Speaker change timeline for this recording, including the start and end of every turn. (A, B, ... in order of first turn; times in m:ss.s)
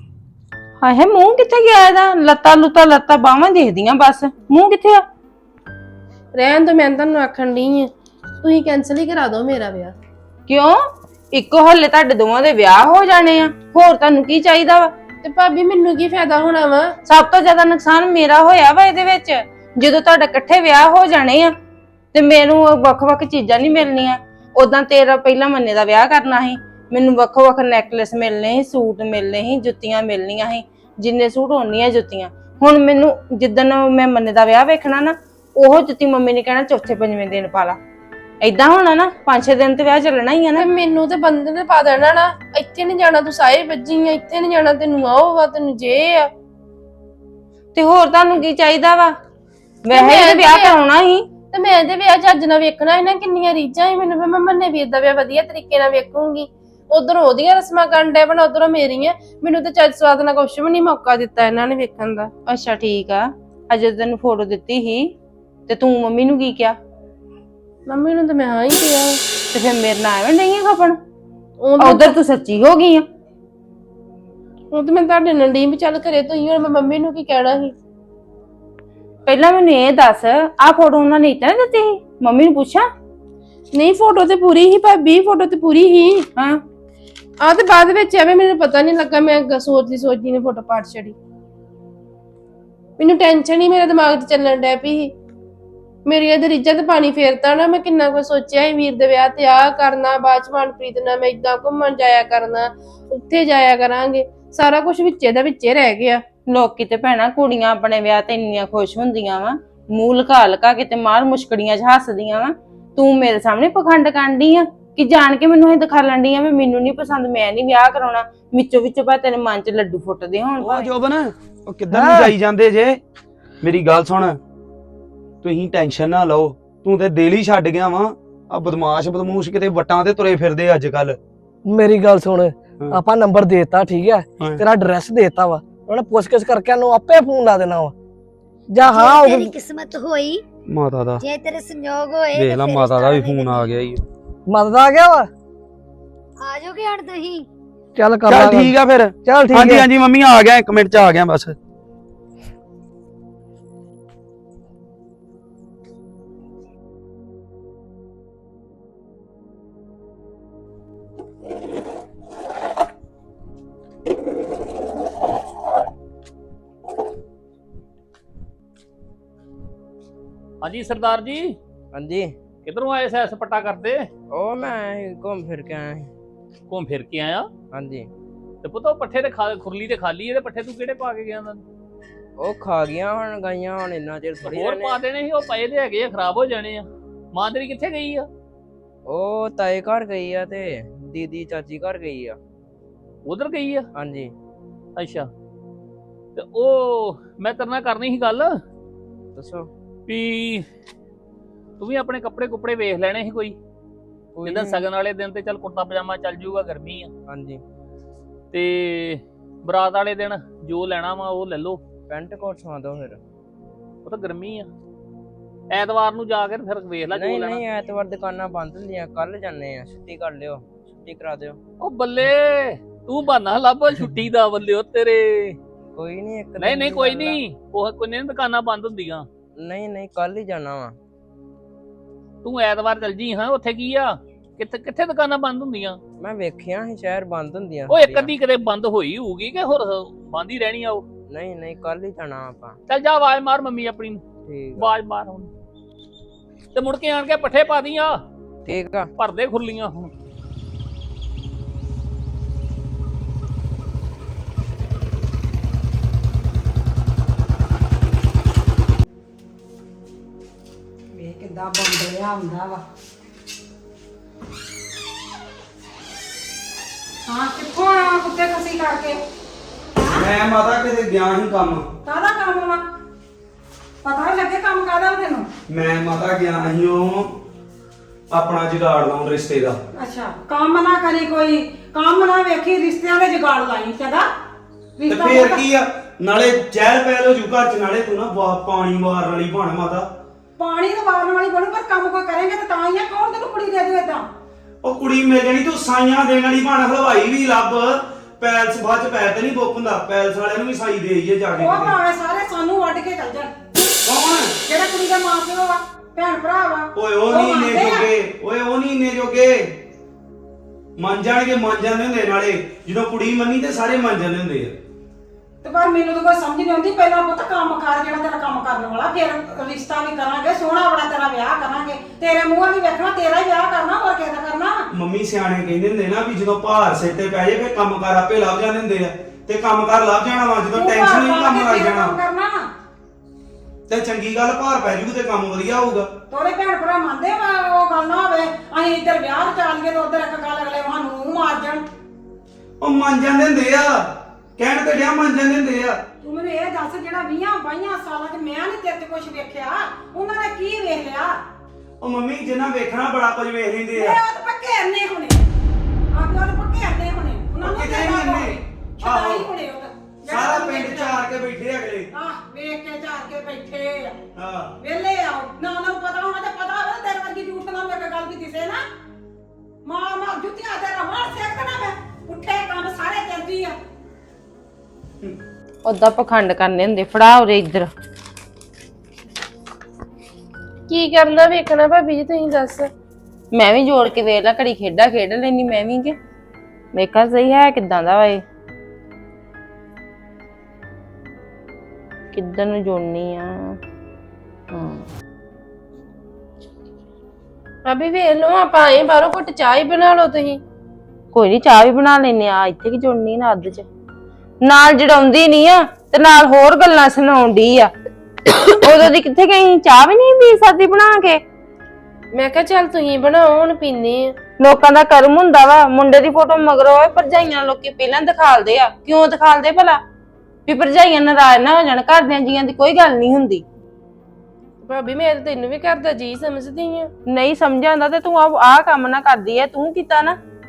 0:00.8-0:05.0 A
0:06.3-0:09.9 B
0:10.5-0:10.8 A
0:11.3-0:14.9 A
0:15.2-0:16.9 B
0:17.0-0:21.5 A
0:22.1-0:37.8 A
0:38.4-0:40.6 A
0:40.6-0:46.3 B
0:47.7-0:49.1 A
0:49.8-0:51.3 A
0:49.9-0:50.8 B
0:51.5-1:02.3 B
1:02.4-1:05.0 A
1:05.7-1:06.8 A
1:07.9-1:09.2 B
1:09.5-1:11.0 A
1:11.6-1:12.2 B
1:11.8-1:13.0 A
1:14.7-1:17.7 B
1:19.2-1:22.9 A
1:23.7-1:26.2 B
1:27.4-1:31.1 B
1:33.0-1:35.1 B
1:36.0-1:46.2 B
1:46.5-2:00.9 A
2:00.6-2:03.0 C
2:01.9-2:02.3 D
2:03.6-2:04.4 C
2:05.4-2:11.2 C
2:11.7-2:17.9 D
2:18.7-2:19.5 D
2:18.8-2:20.4 E
2:20.7-2:21.2 C
2:21.2-2:23.7 E
2:22.3-2:24.0 C
2:24.5-2:25.3 D
2:26.4-2:27.4 E
2:28.0-2:29.9 D
2:28.3-2:31.6 C
2:50.6-2:51.6 F
2:51.9-2:52.3 G
2:52.6-2:54.1 F
2:54.3-2:56.1 G
2:56.7-2:57.5 F
2:57.7-2:58.1 G
2:58.6-3:01.6 F
3:02.4-3:05.0 G
3:04.4-3:08.3 F
3:09.0-3:12.4 G
3:13.2-3:13.9 F
3:13.9-3:14.3 G
3:15.0-3:15.3 F
3:16.4-3:18.6 F
3:19.3-3:19.7 G
3:20.1-3:20.6 F
3:21.8-3:23.6 F
3:24.4-3:24.9 G
3:24.4-3:27.1 F
3:27.2-3:27.6 G
3:28.5-3:31.8 F
3:32.1-3:33.2 G
3:34.0-3:34.7 F
3:35.7-3:37.6 F
3:37.1-3:41.6 G
3:41.8-3:45.6 F
3:45.9-3:47.4 G
3:46.6-3:49.3 F
3:49.6-3:51.0 G
3:52.4-3:56.0 F
3:56.2-3:58.3 G
3:57.9-4:01.0 F
4:01.3-4:02.8 G
4:02.9-4:04.2 F
4:04.4-4:04.9 G
4:04.7-4:05.5 F
4:06.7-4:08.2 F
4:08.6-4:09.1 G
4:09.2-4:10.1 F
4:21.1-4:22.8 H
4:27.2-4:29.2 H
4:30.1-4:31.8 C
4:32.0-4:32.9 H
4:34.0-4:35.5 H
4:35.7-4:37.3 C
4:38.3-4:39.8 C
4:39.9-4:44.3 H
4:45.0-4:45.7 H
4:45.1-4:50.1 C
4:50.6-4:54.3 H
4:54.8-5:02.0 C
5:01.5-5:03.5 H
5:04.0-5:04.5 C
5:04.6-5:08.1 H
5:06.9-5:09.7 C
5:11.0-5:14.7 C
5:15.6-5:24.8 H
5:24.9-5:32.2 C
5:30.7-5:32.7 H
5:33.9-5:36.1 C
5:36.3-5:41.9 H
5:42.8-5:44.0 C
5:44.6-5:46.0 C
5:46.2-5:51.4 H
5:52.0-5:54.2 C
5:53.9-5:55.5 H
5:56.1-6:01.3 H
5:57.6-5:59.4 C
6:00.3-6:02.1 C
6:02.1-6:04.2 H
6:04.4-6:04.7 C
6:04.8-6:08.8 H
6:09.8-6:13.8 H
6:15.8-6:17.9 A
6:20.9-6:22.9 B
6:23.5-6:26.1 A
6:26.9-6:28.4 A
6:32.3-6:33.8 A
6:34.7-6:35.0 A
6:37.8-6:40.6 B
6:41.3-6:43.8 A
6:44.6-6:47.9 A
6:48.8-6:51.4 A
6:52.3-6:54.3 B
6:54.6-7:00.0 A
7:00.7-7:03.6 A
7:04.8-7:07.1 B
7:07.3-7:10.4 A